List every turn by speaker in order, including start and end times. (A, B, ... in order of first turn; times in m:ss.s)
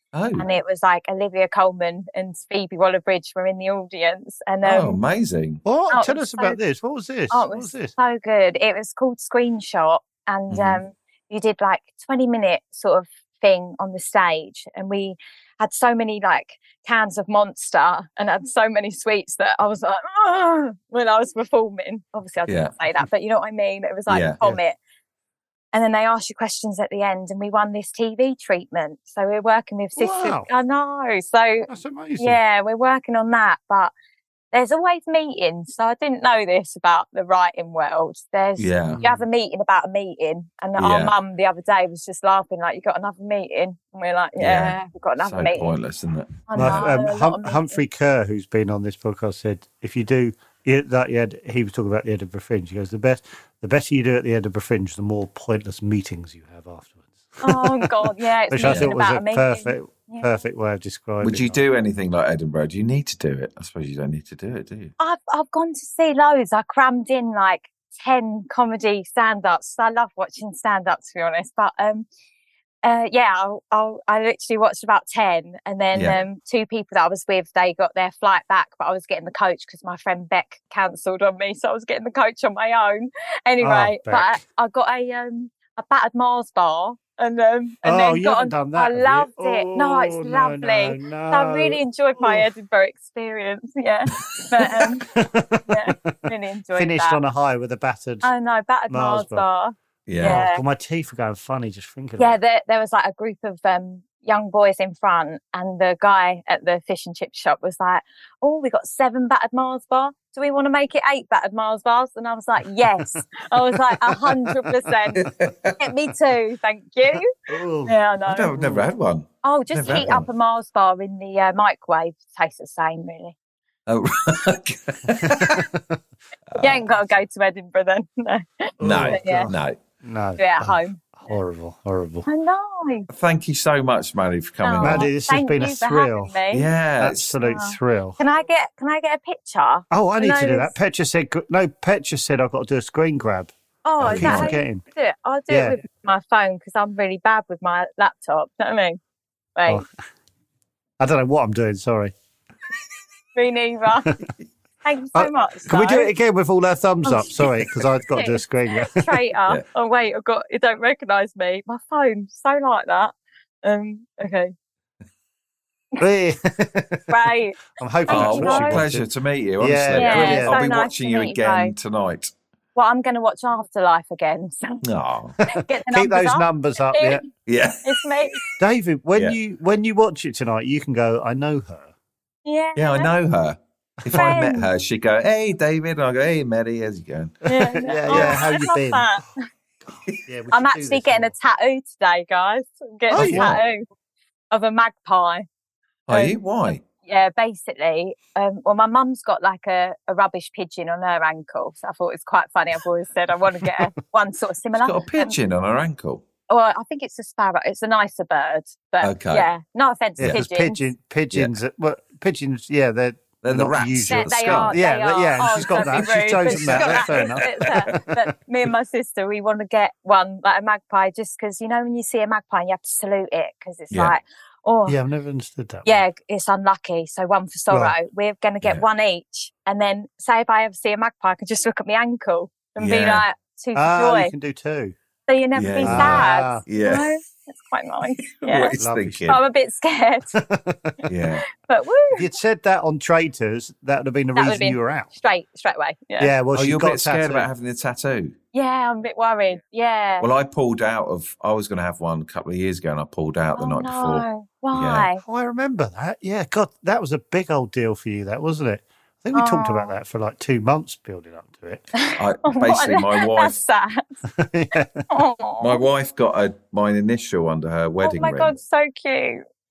0:00.1-0:00.5 A
0:00.4-0:05.0 B
0:04.6-0:05.6 A
0:05.6-0:07.9 C
0:05.9-0:06.6 B
0:07.3-0:24.8 B
0:10.5-0:10.8 A
0:22.5-0:22.7 A
0:24.1-0:24.6 A
0:25.7-0:31.7 B
0:30.0-0:30.5 C
0:31.7-0:32.4 C
0:32.2-0:33.9 B
0:34.5-0:45.7 B
0:38.6-0:39.0 A
0:38.9-0:39.2 C
0:40.8-0:41.1 A
0:44.4-0:46.9 A
0:46.5-0:47.8 B
0:46.5-0:57.9 C
0:57.4-1:00.4 B
0:58.5-1:01.6 C
0:58.6-0:58.9 A
1:01.2-1:04.9 A
1:05.0-1:12.1 B
1:12.8-1:35.0 B
1:15.9-1:16.2 A
1:23.6-1:24.4 C
1:27.8-1:32.4 C
1:34.6-1:36.2 C
1:35.7-1:37.2 B
1:36.7-1:38.3 C
1:38.2-1:40.6 B
1:38.9-1:39.4 C
1:40.1-1:40.4 A
1:40.2-1:42.4 C
1:42.2-1:57.3 B
1:55.2-1:55.8 A
1:57.5-1:58.0 C
1:57.8-1:58.5 B
1:58.2-2:00.2 A
1:58.6-1:58.9 C
1:59.4-2:03.4 B
1:59.8-2:00.3 C
2:03.9-2:05.6 A
2:05.1-2:06.0 C
2:06.5-2:06.8 A
2:06.6-2:09.5 B
2:08.8-2:12.3 C
2:08.8-2:09.8 A
2:10.4-2:11.3 B
2:12.3-2:13.1 B
2:13.1-2:15.1 A
2:14.6-2:16.7 B
2:14.8-2:16.3 C
2:16.5-2:17.4 A
2:17.0-2:18.2 C
2:17.4-2:20.7 B
2:19.9-2:24.8 C
2:23.8-2:29.0 B
2:24.0-2:24.6 A
2:25.5-2:25.8 C
2:29.6-2:29.8 B
2:31.0-2:32.1 C
2:33.3-2:34.1 B
2:34.8-2:36.1 B
2:35.1-2:39.1 C
2:37.0-2:37.4 B
2:38.1-2:43.1 B
2:43.6-2:44.5 B
2:46.0-2:47.1 C
2:47.1-2:48.8 B
2:47.7-2:49.0 C
2:48.1-2:52.3 A
2:49.6-2:50.6 C
2:49.9-2:51.7 B
2:52.7-2:54.8 B
2:54.8-2:55.4 A
2:55.4-2:57.3 B
2:55.9-2:57.2 C
2:57.4-2:58.4 A
2:57.8-2:58.4 B
2:58.6-3:01.9 C
3:02.4-3:03.1 B
3:02.8-3:07.4 A
3:04.1-3:04.7 B
3:07.5-3:09.4 B
3:07.5-3:09.1 C
3:08.1-3:08.6 A
3:10.2-3:11.3 C
3:10.5-3:13.8 B
3:13.1-3:13.6 C
3:13.1-3:13.6 A
3:14.5-3:15.5 B
3:16.1-3:16.8 A
3:16.1-3:25.3 B
3:24.7-3:26.2 A
3:26.5-3:30.8 B
3:29.0-3:29.5 A
3:30.2-3:38.3 C
3:33.4-3:34.8 A
3:34.1-3:45.0 B
3:35.7-3:37.6 A
3:44.9-3:46.0 C
3:45.8-3:54.3 B
3:47.7-3:48.0 C
3:52.8-3:53.2 A
3:53.8-3:54.9 C
3:55.3-3:58.8 B
3:55.5-3:57.1 A
3:55.8-3:56.6 C
3:58.3-3:59.4 A
3:58.8-3:59.4 C
3:59.3-4:00.3 B
4:00.3-4:01.0 C
4:01.1-4:01.4 A
4:01.5-4:02.3 B
4:02.1-4:05.1 C
4:04.3-4:06.3 B
4:06.2-4:07.5 C
4:06.5-4:08.3 A
4:08.5-4:10.3 B
4:10.2-4:15.1 A
4:13.6-4:15.2 B
4:15.2-4:21.8 C
4:19.3-4:19.9 B
4:21.9-4:24.2 B
4:22.2-4:23.6 A
4:24.3-4:25.0 C
4:25.1-4:25.8 B
4:25.6-4:28.5 A
4:28.0-4:29.4 B